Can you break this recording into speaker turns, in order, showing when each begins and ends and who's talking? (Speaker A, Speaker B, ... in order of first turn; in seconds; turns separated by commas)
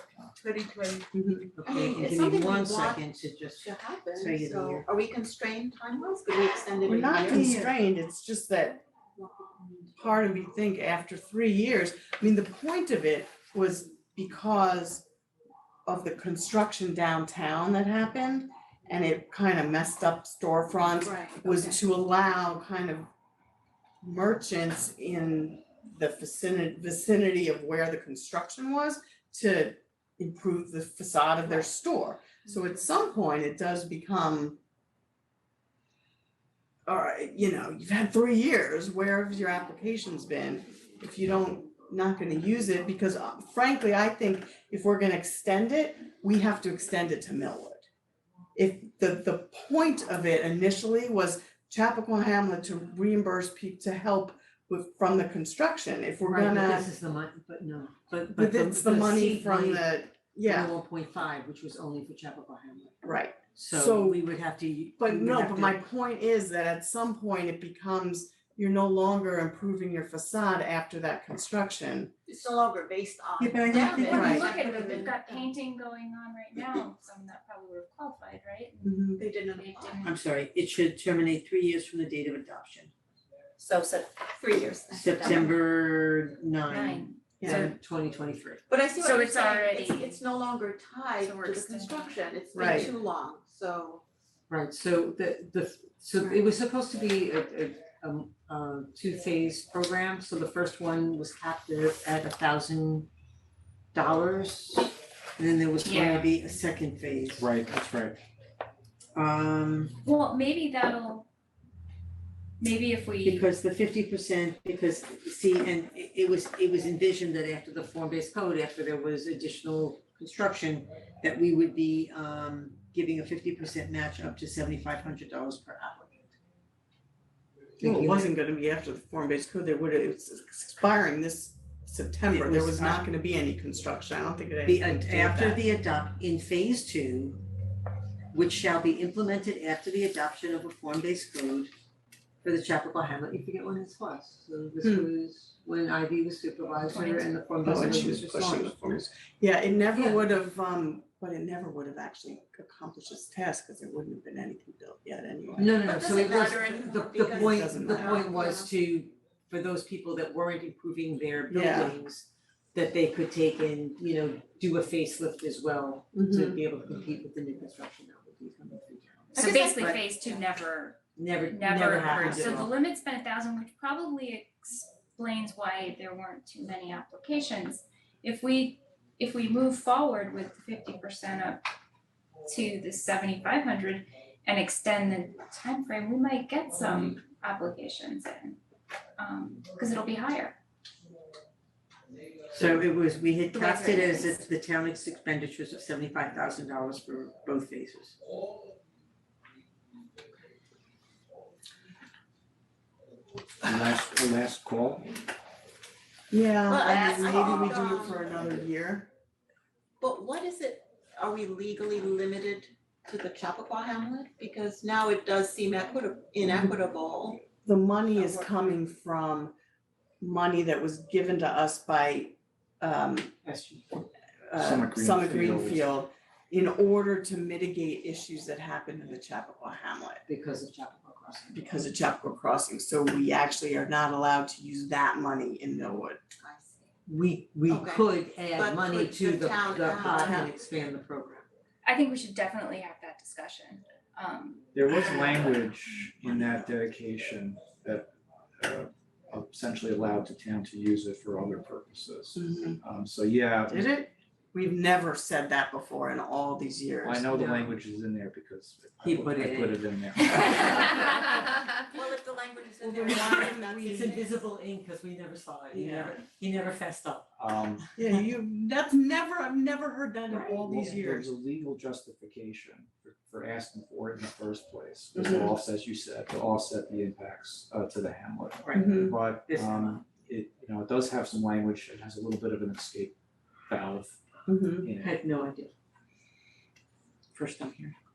Speaker A: 0.4-1.1, Speaker B: 1.1-1.5, Speaker C: 1.6-4.9, Speaker A: 1.6-7.7, Speaker B: 6.9-8.8, Speaker C: 7.3-7.7, Speaker A: 9.3-9.7, Speaker B: 10.0-15.1, Speaker B: 15.9-23.1, Speaker A: 21.0-21.7, Speaker B: 24.0-34.6, Speaker B: 36.9-47.9, Speaker B: 48.5-56.9, Speaker C: 56.2-59.9, Speaker B: 58.3-60.8, Speaker C: 60.4-65.8, Speaker B: 63.0-64.2, Speaker B: 65.0-72.1, Speaker A: 72.3-75.5, Speaker C: 73.4-74.5, Speaker D: 73.8-80.1, Speaker B: 74.1-74.5, Speaker B: 78.8-79.2, Speaker A: 79.2-80.1, Speaker C: 80.0-82.9, Speaker A: 83.6-85.5, Speaker C: 84.9-88.6, Speaker D: 86.7-87.4, Speaker B: 87.4-87.7, Speaker A: 88.7-94.0, Speaker D: 89.0-90.2, Speaker D: 91.2-92.0, Speaker B: 92.5-92.9, Speaker C: 94.5-103.1, Speaker C: 103.9-107.5, Speaker D: 105.8-106.3, Speaker E: 107.4-108.2, Speaker C: 109.2-110.0, Speaker D: 110.0-111.3, Speaker D: 112.6-113.5, Speaker C: 113.2-126.3, Speaker C: 127.8-128.3, Speaker B: 127.8-135.6, Speaker C: 132.3-133.0, Speaker C: 134.7-137.4, Speaker C: 138.3-141.7, Speaker C: 142.4-148.8, Speaker B: 144.8-145.1, Speaker D: 146.9-147.3, Speaker B: 147.6-156.1, Speaker C: 149.9-150.3, Speaker C: 155.6-170.1, Speaker A: 155.8-158.7, Speaker B: 157.3-158.3, Speaker B: 161.5-162.0, Speaker B: 166.1-166.6, Speaker D: 169.3-181.7, Speaker C: 171.2-172.7, Speaker B: 172.1-172.7, Speaker D: 182.4-188.6, Speaker D: 189.2-190.6, Speaker C: 192.5-198.2, Speaker D: 193.5-194.3, Speaker E: 203.6-205.2, Speaker B: 206.3-209.1, Speaker A: 206.7-208.3, Speaker A: 210.0-217.4, Speaker B: 217.6-219.6, Speaker A: 218.2-218.5, Speaker B: 220.2-223.4, Speaker C: 223.4-224.0, Speaker B: 224.5-230.2, Speaker E: 224.6-225.8, Speaker C: 230.3-231.6, Speaker B: 231.5-236.2, Speaker A: 236.4-236.8, Speaker C: 237.1-241.4, Speaker A: 237.7-240.5, Speaker B: 240.0-240.5, Speaker D: 241.8-244.7, Speaker E: 244.7-253.9, Speaker B: 246.2-246.7, Speaker B: 252.4-252.8, Speaker B: 253.7-257.4, Speaker E: 257.0-261.2, Speaker C: 257.3-257.8, Speaker C: 259.0-259.9, Speaker A: 261.8-264.3, Speaker B: 262.8-264.3, Speaker C: 263.2-267.3, Speaker B: 265.7-266.2, Speaker E: 267.4-267.9, Speaker B: 268.0-271.3, Speaker E: 270.3-283.1, Speaker B: 275.2-275.5, Speaker C: 278.6-280.1, Speaker B: 278.7-279.1, Speaker E: 283.7-284.2, Speaker B: 284.5-284.9, Speaker E: 284.8-285.2, Speaker C: 285.0-285.7, Speaker C: 287.4-287.9